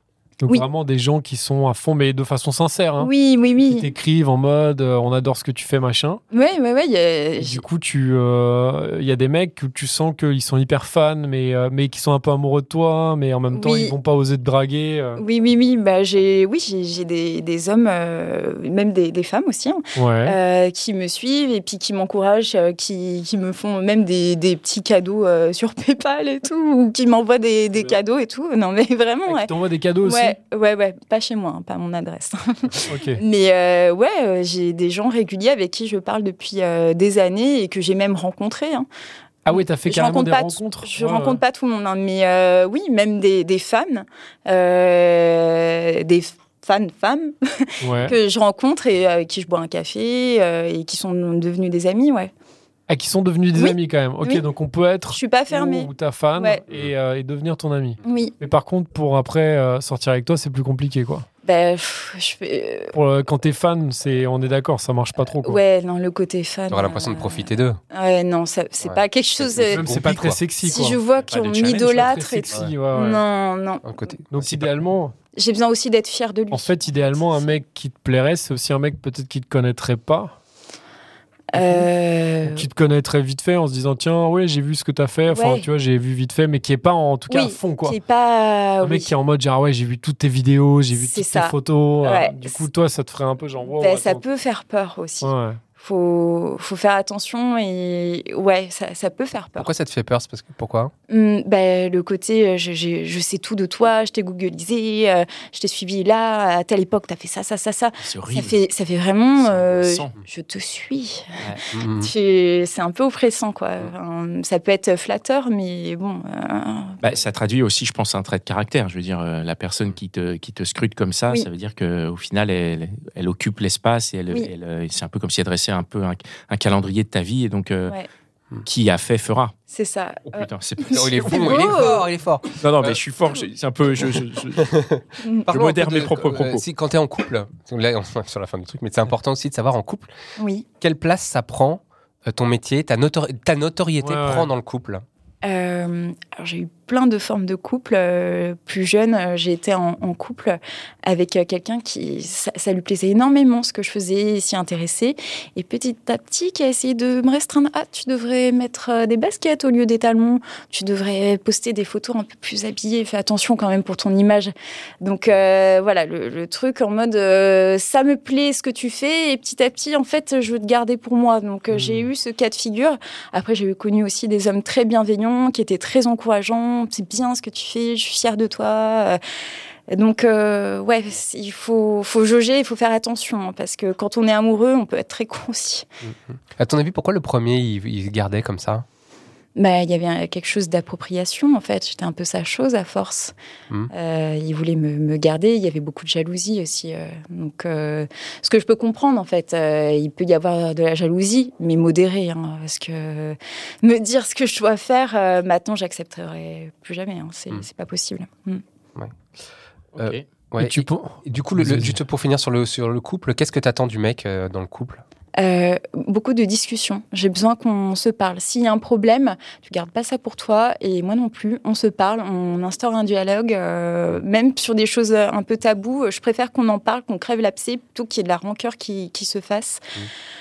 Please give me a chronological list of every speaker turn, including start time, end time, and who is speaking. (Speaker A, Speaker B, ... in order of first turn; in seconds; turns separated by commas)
Speaker A: 0.4-3.1, Speaker B: 3.0-3.9, Speaker A: 3.7-6.2, Speaker B: 6.3-7.6, Speaker A: 7.4-15.2, Speaker B: 13.5-13.9, Speaker B: 15.2-29.5, Speaker A: 19.9-20.4, Speaker A: 29.3-30.4, Speaker B: 30.0-38.9, Speaker A: 32.9-33.2, Speaker A: 39.4-41.4, Speaker B: 39.5-52.3, Speaker A: 47.8-48.2, Speaker A: 52.9-61.2, Speaker B: 53.5-54.4, Speaker B: 55.1-56.6, Speaker B: 58.0-58.4, Speaker B: 61.4-62.9, Speaker A: 62.9-65.6, Speaker B: 65.4-69.9, Speaker C: 66.7-67.8, Speaker C: 68.8-70.4, Speaker A: 69.7-71.0, Speaker B: 70.6-74.1, Speaker D: 71.2-72.1, Speaker A: 71.7-73.2, Speaker C: 73.8-74.2, Speaker A: 74.3-75.1, Speaker D: 74.4-74.7, Speaker B: 75.4-77.4, Speaker A: 76.5-80.3, Speaker B: 81.5-82.7, Speaker A: 81.5-81.9, Speaker A: 82.4-88.0, Speaker B: 85.3-85.7, Speaker B: 87.3-89.1, Speaker A: 88.8-94.2, Speaker B: 91.0-92.7, Speaker B: 93.8-99.7, Speaker A: 95.2-95.6, Speaker C: 99.6-100.9, Speaker B: 101.1-111.4, Speaker D: 108.0-108.6, Speaker D: 109.4-110.1, Speaker C: 111.7-112.1, Speaker B: 111.9-117.0, Speaker D: 117.0-127.9, Speaker D: 128.6-129.5, Speaker B: 129.7-132.1, Speaker D: 130.3-131.9, Speaker C: 130.9-133.0, Speaker D: 132.6-134.7, Speaker C: 134.0-140.1, Speaker B: 135.2-135.5, Speaker D: 135.5-136.6, Speaker B: 140.4-140.7, Speaker C: 140.8-145.0, Speaker A: 144.0-144.5, Speaker B: 145.4-179.2, Speaker A: 171.7-172.1, Speaker B: 179.9-185.9, Speaker C: 186.0-188.9, Speaker B: 189.6-193.3, Speaker B: 193.9-208.6, Speaker D: 209.9-210.2, Speaker C: 210.0-215.0, Speaker A: 210.6-212.0, Speaker B: 215.4-229.8